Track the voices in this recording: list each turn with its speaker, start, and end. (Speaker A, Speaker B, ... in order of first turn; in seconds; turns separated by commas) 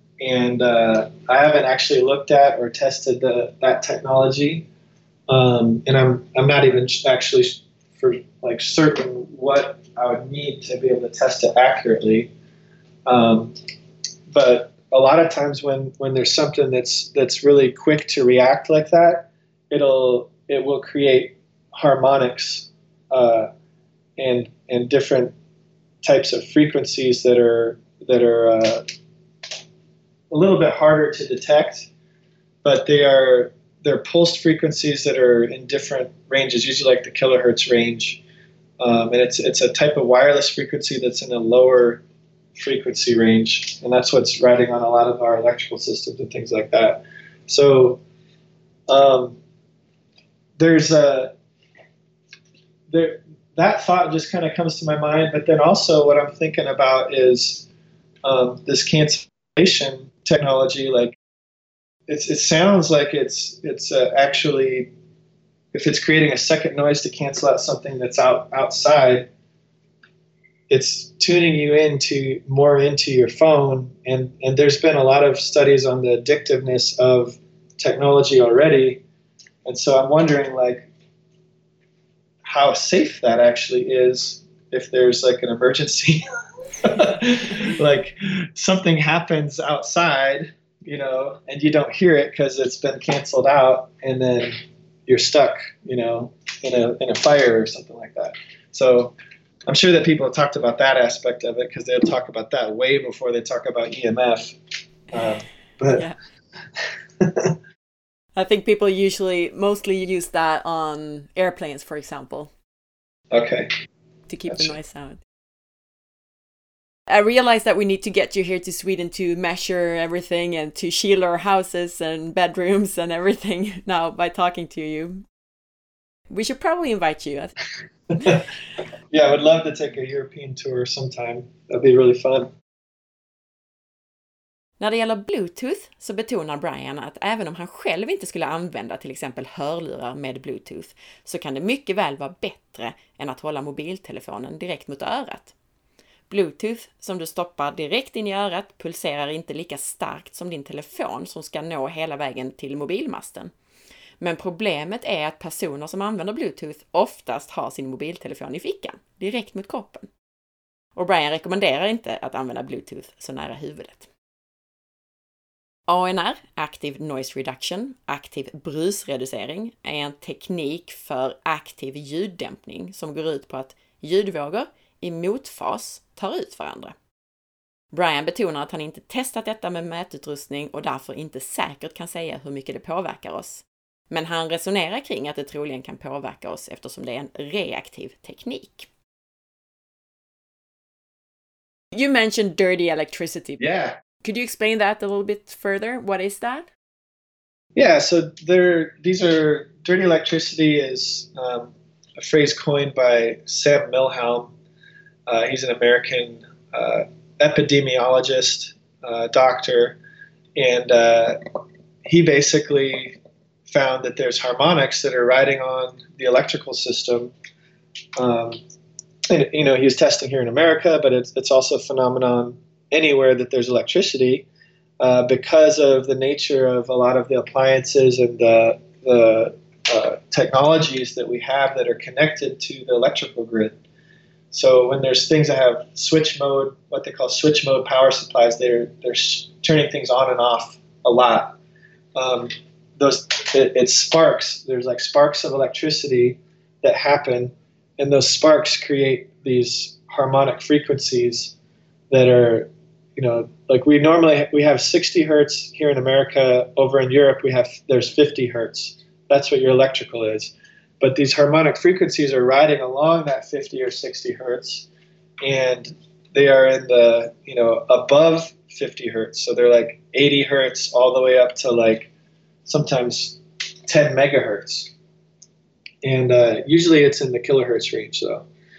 Speaker A: 0.2-4.7, Speaker A: 5.3-12.3, Speaker A: 13.1-13.5, Speaker A: 14.3-23.5, Speaker A: 24.2-25.3, Speaker A: 26.0-28.8, Speaker A: 30.3-31.9, Speaker A: 32.6-38.2, Speaker A: 38.8-42.0, Speaker A: 42.6-48.0, Speaker A: 48.9-49.4, Speaker A: 50.6-51.3, Speaker A: 52.9-57.7, Speaker A: 58.2-61.2, Speaker A: 62.1-64.9, Speaker A: 65.7-69.3, Speaker A: 70.7-79.0, Speaker A: 79.7-80.9, Speaker A: 82.4-86.2, Speaker A: 86.8-94.5, Speaker A: 95.1-99.2, Speaker A: 99.7-104.5, Speaker A: 105.1-106.0, Speaker B: 105.9-106.2, Speaker A: 107.2-107.6, Speaker B: 108.4-112.5, Speaker A: 113.3-113.7, Speaker B: 114.3-115.2, Speaker B: 117.1-125.2, Speaker B: 126.3-127.5, Speaker A: 129.1-132.5, Speaker B: 134.8-145.5, Speaker B: 146.3-153.5, Speaker B: 154.2-160.1, Speaker B: 160.9-164.1, Speaker B: 165.9-176.9, Speaker B: 177.9-188.9, Speaker B: 191.9-193.7, Speaker A: 193.6-194.0, Speaker B: 194.2-196.7, Speaker A: 197.8-204.5, Speaker A: 205.3-210.0, Speaker A: 210.6-211.4, Speaker A: 212.1-217.3, Speaker A: 218.2-218.6, Speaker A: 219.3-224.5, Speaker A: 225.0-233.8, Speaker A: 234.5-241.6, Speaker A: 242.2-251.6, Speaker A: 252.1-264.9, Speaker A: 265.4-272.1, Speaker A: 272.7-274.9, Speaker A: 276.0-278.5